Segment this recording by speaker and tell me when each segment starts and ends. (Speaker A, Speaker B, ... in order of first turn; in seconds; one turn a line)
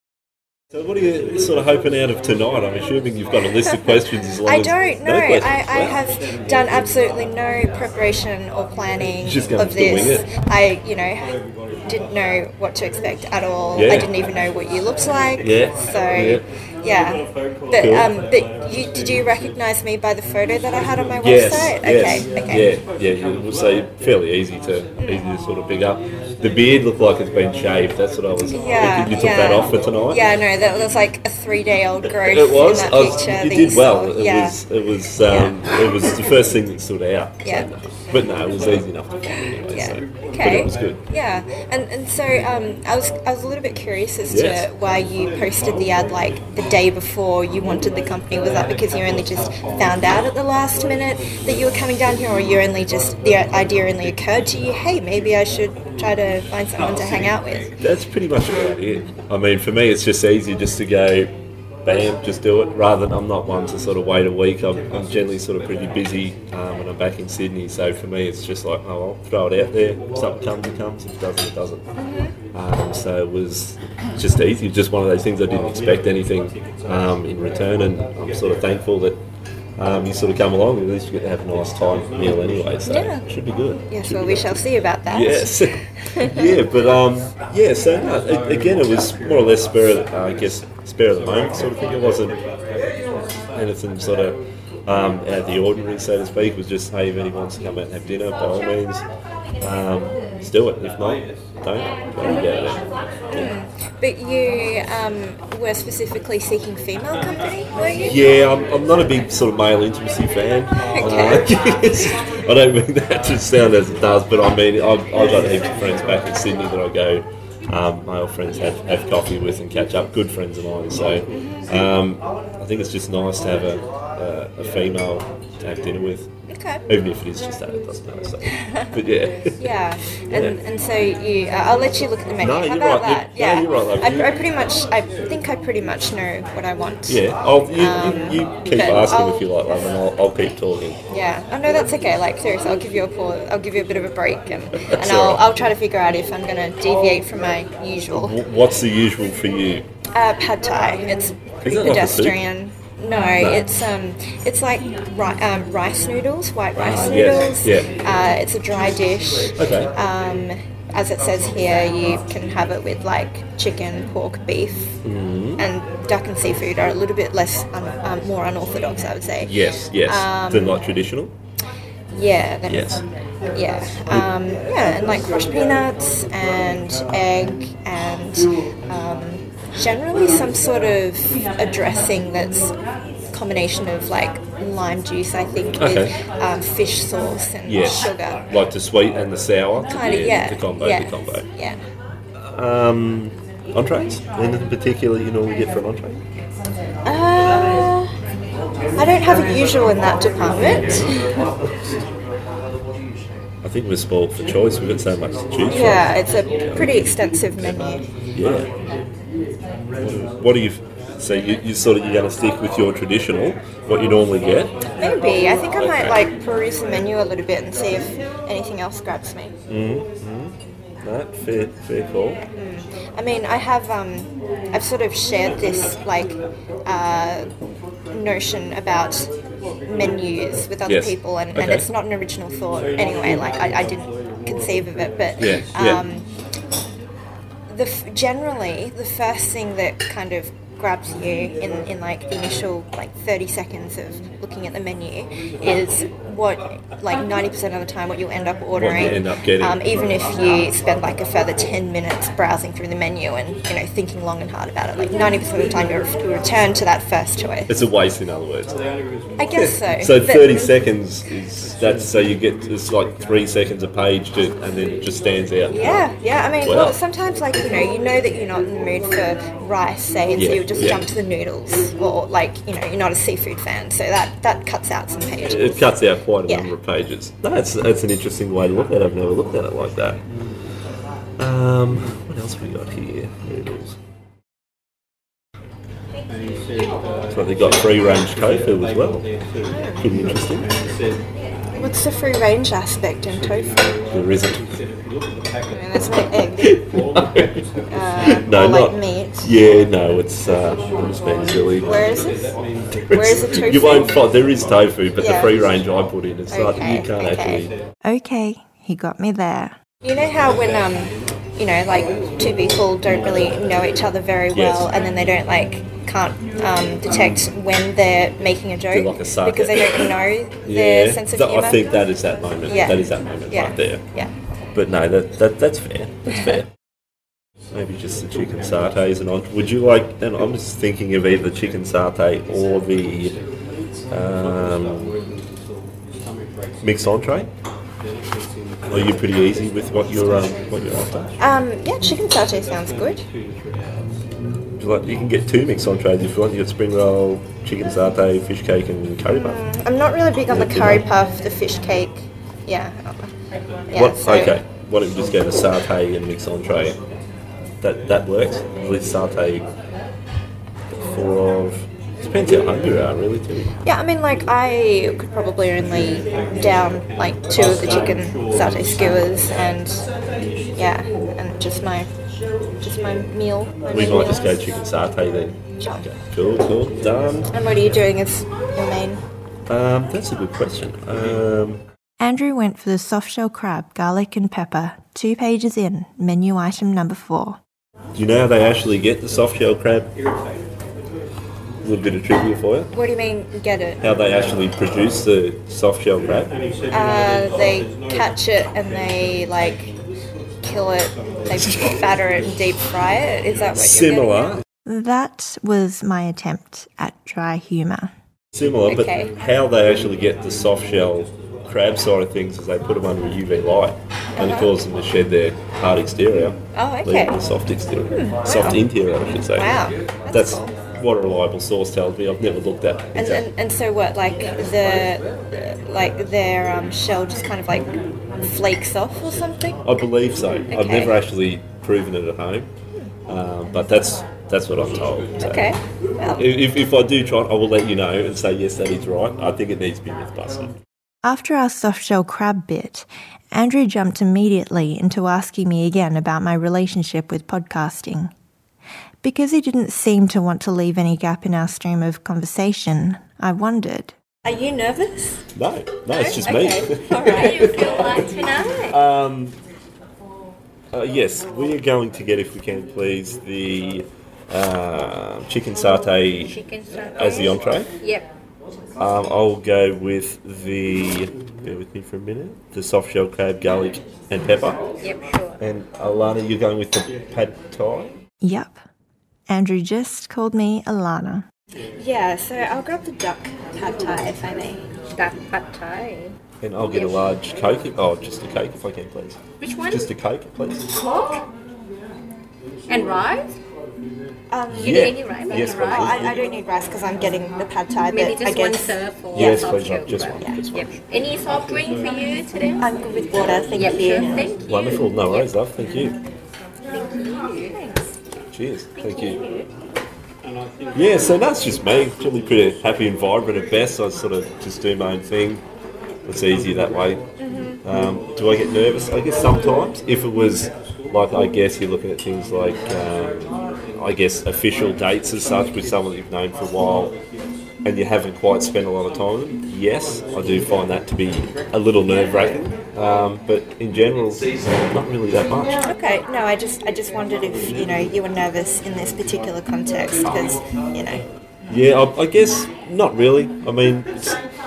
Speaker A: 0.7-6.0
Speaker B: 3.6-22.6
Speaker A: 9.2-10.2
Speaker A: 13.7-14.1
Speaker A: 15.4-16.4
Speaker A: 17.8-18.1
Speaker A: 21.2-30.2
Speaker B: 25.0-25.3
Speaker B: 28.5-34.6
Speaker A: 32.2-41.0
Speaker B: 35.2-36.4
Speaker B: 37.4-37.7
Speaker B: 39.6-57.7
Speaker A: 44.3-44.7
Speaker A: 57.8-61.3
Speaker A: 61.8-71.9
Speaker B: 72.0-72.3
Speaker A: 72.5-79.2
Speaker A: 79.8-92.3
Speaker B: 82.9-83.2
Speaker B: 83.9-86.5
Speaker A: 93.5-99.0
Speaker A: 99.6-103.5
Speaker B: 103.3-108.2
Speaker A: 108.0-126.3
Speaker B: 110.9-111.5
Speaker B: 121.4-121.7
Speaker B: 126.5-126.8
Speaker A: 126.9-129.7
Speaker B: 128.5-128.9
Speaker B: 129.6-137.2
Speaker A: 130.3-130.6
Speaker A: 132.4-134.3
Speaker A: 137.1-141.0
Speaker B: 137.8-139.5
Speaker B: 141.1-148.3
Speaker A: 144.8-145.4
Speaker A: 148.1-149.8
Speaker B: 150.1-165.0
Speaker A: 151.6-152.4
Speaker A: 153.4-153.7
Speaker A: 156.8-157.9
Speaker A: 159.6-159.9
Speaker A: 165.0-165.6
Speaker B: 165.6-170.8
Speaker A: 169.4-171.3
Speaker B: 172.1-182.7
Speaker A: 172.7-173.0
Speaker B: 183.3-188.4
Speaker A: 185.8-186.1
Speaker A: 187.7-191.4
Speaker B: 189.9-191.8
Speaker A: 192.4-196.2
Speaker B: 197.0-198.2
Speaker B: 199.0-201.2
Speaker A: 200.5-201.2
Speaker A: 203.6-206.1
Speaker B: 205.7-208.0
Speaker A: 206.6-208.7
Speaker A: 210.0-214.8
Speaker B: 215.0-219.5
Speaker A: 215.8-216.2
Speaker A: 219.7-222.4
Speaker B: 222.6-227.5
Speaker B: 228.1-229.3
Speaker B: 229.9-236.2
Speaker A: 230.8-231.9
Speaker A: 235.4-236.0
Speaker B: 237.7-257.7
Speaker A: 248.8-249.8
Speaker A: 257.7-258.8
Speaker B: 259.4-260.9
Speaker A: 259.5-266.0
Speaker B: 265.7-275.9
Speaker A: 266.6-266.9
Speaker A: 270.3-271.1
Speaker A: 275.4-280.2
Speaker A: 281.4-284.0
Speaker A: 287.3-289.2
Speaker B: 289.6-290.1
Speaker A: 290.0-290.7
Speaker B: 291.7-294.0
Speaker A: 294.1-294.7
Speaker B: 295.7-296.9
Speaker A: 296.6-297.6
Speaker B: 297.9-299.5
Speaker A: 298.2-302.1
Speaker B: 301.8-302.6
Speaker B: 303.1-304.1
Speaker A: 303.1-307.7
Speaker B: 305.2-305.5
Speaker B: 306.5-307.6
Speaker C: 308.0-309.8
Speaker B: 310.0-322.0
Speaker A: 314.5-314.9
Speaker A: 318.9-320.1
Speaker A: 320.6-324.0
Speaker B: 322.7-324.3
Speaker A: 324.7-326.7
Speaker A: 327.7-333.4
Speaker A: 334.1-335.1
Speaker A: 336.8-337.5
Speaker A: 338.9-341.3
Speaker B: 341.4-343.2
Speaker A: 344.8-349.6
Speaker B: 349.3-353.3
Speaker A: 350.5-351.1
Speaker B: 353.9-354.6
Speaker A: 353.9-357.0
Speaker A: 357.8-359.6
Speaker A: 360.9-363.7
Speaker B: 363.8-370.1
Speaker B: 370.8-372.1
Speaker B: 372.8-374.4
Speaker A: 373.9-377.5
Speaker B: 375.8-376.1
Speaker B: 377.5-379.2
Speaker A: 379.7-381.8
Speaker C: 382.2-387.6
Speaker A: 388.1-390.1
Speaker A: 391.8-392.9
Speaker B: 392.9-394.0
Speaker A: 394.0-396.5
Speaker B: 396.9-399.9
Speaker B: 400.6-404.6
Speaker A: 401.5-401.9
Speaker A: 403.7-404.6
Speaker C: 404.9-408.1
Speaker A: 408.5-419.8
Speaker B: 408.9-409.3
Speaker B: 414.4-414.7
Speaker B: 416.7-417.4
Speaker B: 418.1-418.8
Speaker B: 419.5-420.7
Speaker A: 420.3-423.5
Speaker B: 423.1-429.8
Speaker A: 429.8-432.7
Speaker B: 430.7-431.2
Speaker A: 433.3-435.8
Speaker B: 435.4-436.4
Speaker A: 436.3-440.8
Speaker C: 441.2-448.3
Speaker C: 449.2-454.1
Speaker B: 454.4-455.5
Speaker A: 455.5-459.6
Speaker B: 456.1-458.2
Speaker D: 457.3-459.0
Speaker A: 460.9-466.6
Speaker D: 466.4-468.2
Speaker A: 467.1-467.9
Speaker A: 469.0-474.8
Speaker D: 475.0-475.6
Speaker A: 475.6-478.2
Speaker C: 478.4-478.8
Speaker C: 479.5-481.4
Speaker B: 482.0-484.9
Speaker D: 485.1-486.4
Speaker A: 486.6-490.9
Speaker D: 489.6-490.1
Speaker D: 490.9-491.4
Speaker D: 492.9-493.5
Speaker B: 494.5-499.6
Speaker A: 494.7-496.4
Speaker D: 494.7-496.3
Speaker D: 498.1-502.9
Speaker A: 499.3-500.9
Speaker B: 502.8-504.4
Speaker D: 503.8-505.5
Speaker A: 504.6-506.2
Speaker D: 506.9-508.0
Speaker A: 508.4-509.4
Speaker D: 509.0-509.7
Speaker A: 510.9-515.6
Speaker A: 516.2-517.2
Speaker B: 517.4-517.8
Speaker A: 517.8-527.1
Speaker A: 527.8-535.8
Speaker B: 535.8-541.2
Speaker A: 541.7-544.4